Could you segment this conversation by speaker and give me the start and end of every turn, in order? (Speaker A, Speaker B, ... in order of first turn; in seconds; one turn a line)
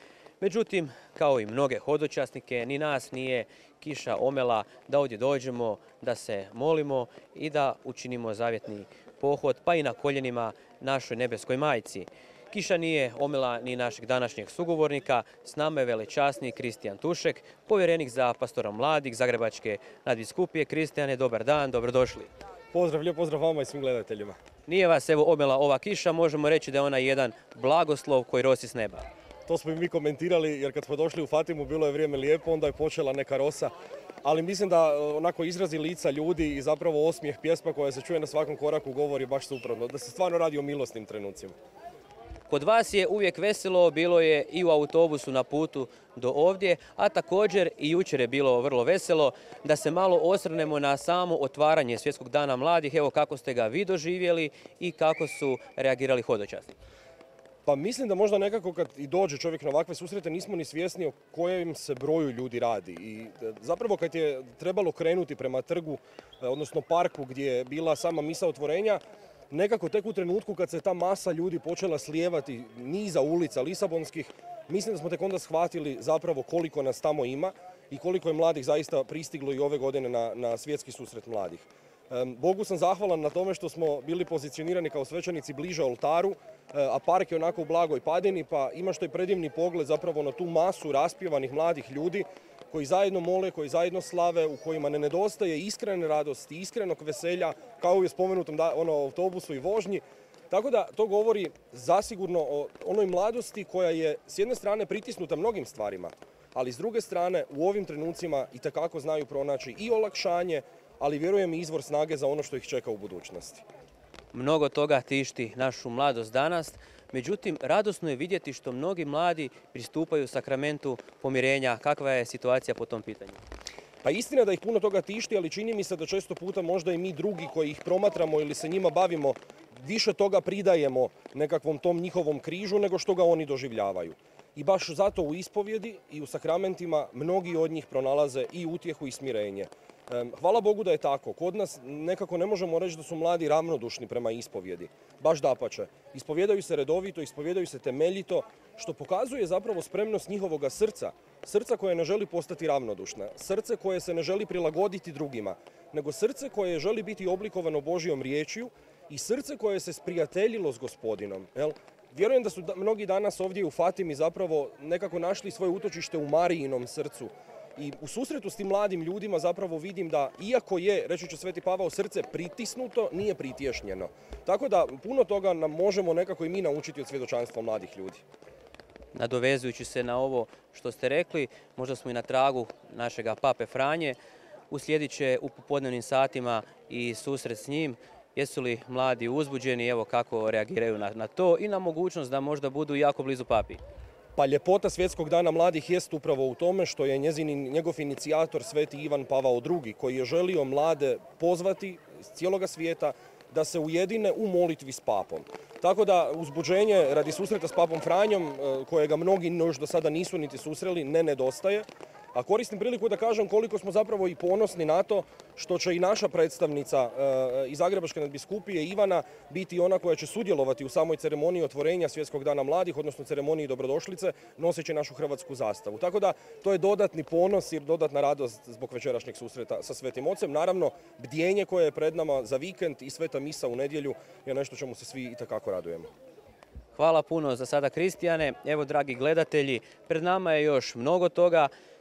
Speaker A: 0.4-22.3
Speaker B: 22.7-24.4
Speaker A: 24.7-29.1
Speaker B: 29.5-33.7
Speaker B: 34.2-41.5
Speaker A: 42.5-56.7
Speaker B: 57.6-113.6
Speaker A: 114.3-123.4
Speaker B: 124.0-178.2
Speaker A: 179.1-184.2
Speaker A: 184.7-193.8
Speaker B: 194.3-236.1
Speaker A: 236.9-241.7